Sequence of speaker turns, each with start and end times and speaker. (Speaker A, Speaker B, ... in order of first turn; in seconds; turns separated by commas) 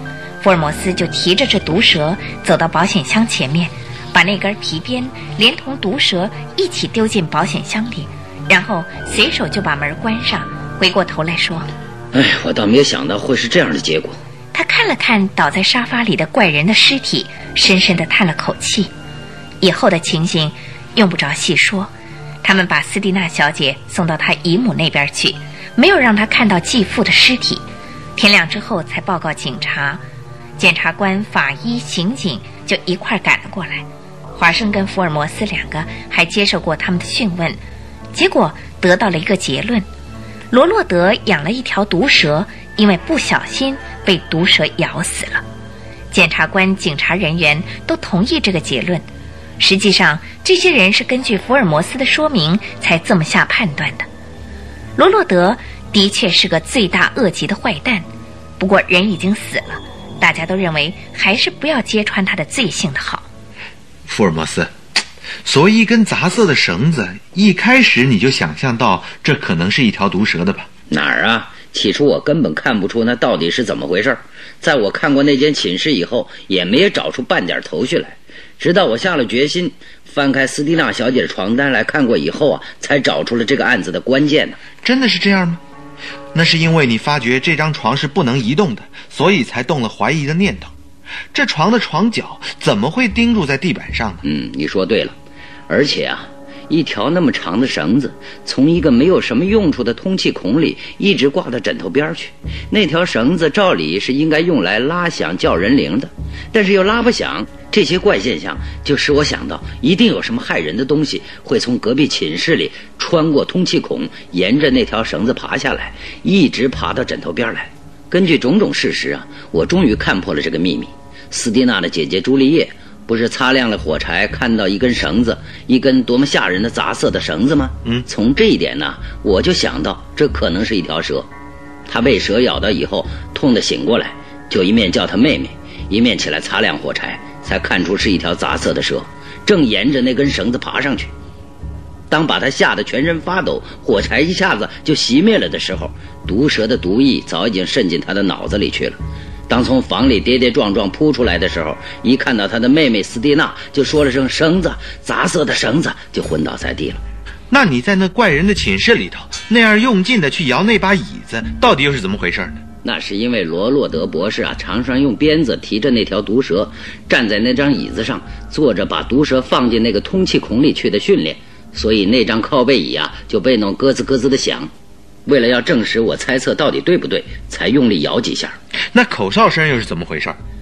Speaker A: 0.4-11.7, Speaker B: 12.1-14.2, Speaker A: 14.5-18.9, Speaker A: 19.6-21.9, Speaker A: 22.4-30.0, Speaker A: 30.6-37.6, Speaker A: 38.1-39.9, Speaker A: 40.5-45.4, Speaker A: 46.1-49.1, Speaker A: 49.6-54.1, Speaker A: 55.0-58.1, Speaker A: 58.6-63.3, Speaker C: 64.1-64.7, Speaker C: 65.4-70.7, Speaker B: 70.9-84.6, Speaker C: 84.8-85.6, Speaker C: 86.3-90.7, Speaker C: 91.3-94.2, Speaker B: 94.2-95.1, Speaker B: 95.7-131.3, Speaker B: 131.9-141.1, Speaker B: 142.1-157.0, Speaker C: 157.5-162.6, Speaker B: 162.8-174.7, Speaker B: 175.3-178.6, Speaker C: 178.9-180.4